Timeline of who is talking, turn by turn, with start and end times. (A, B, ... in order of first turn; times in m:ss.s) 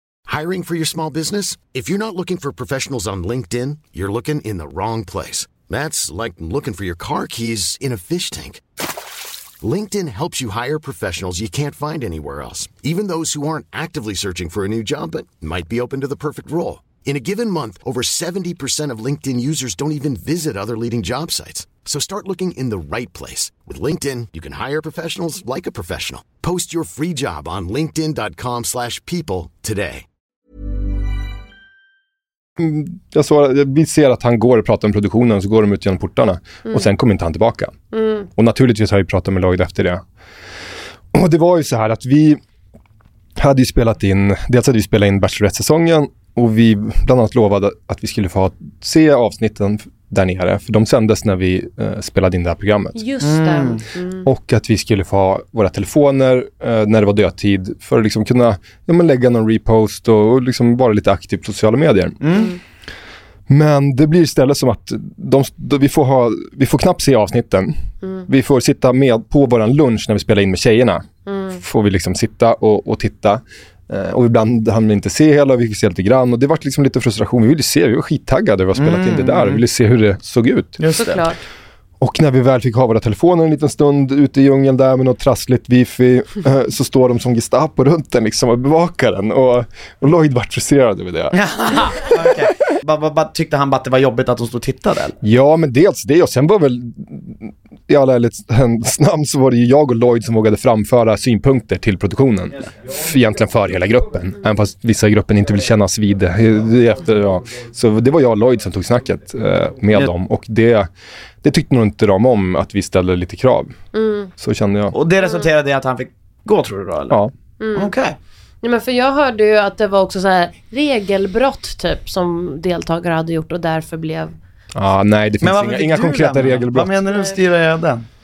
0:00.3-0:08.6 A
0:09.6-0:30.0 A
0:32.6-0:37.7 B
0:37.9-0:38.3 C
0:38.4-0:40.0 B
0:41.1-0:42.4 B
0:43.4-0:53.0 B
0:53.0-0:54.3 C
0:53.2-0:53.8 D
0:54.2-1:02.2 B
1:02.2-1:02.5 D
1:03.5-1:07.7 B
1:08.3-1:11.0 B
1:11.3-1:11.6 C
1:11.6-1:20.8 B
1:18.8-1:19.6 D
1:20.8-1:21.2 D
1:21.0-1:21.4 C
1:22.0-1:31.4 B
1:31.3-1:35.2 D
1:35.2-1:50.9 B
1:51.4-1:53.8 B
1:53.9-1:54.3 C
1:54.4-1:55.0 B
1:54.9-1:57.2 D
1:57.6-1:57.9 C
1:57.8-1:58.2 D
1:58.6-2:04.3 C
2:04.8-2:06.9 B
2:05.4-2:08.0 D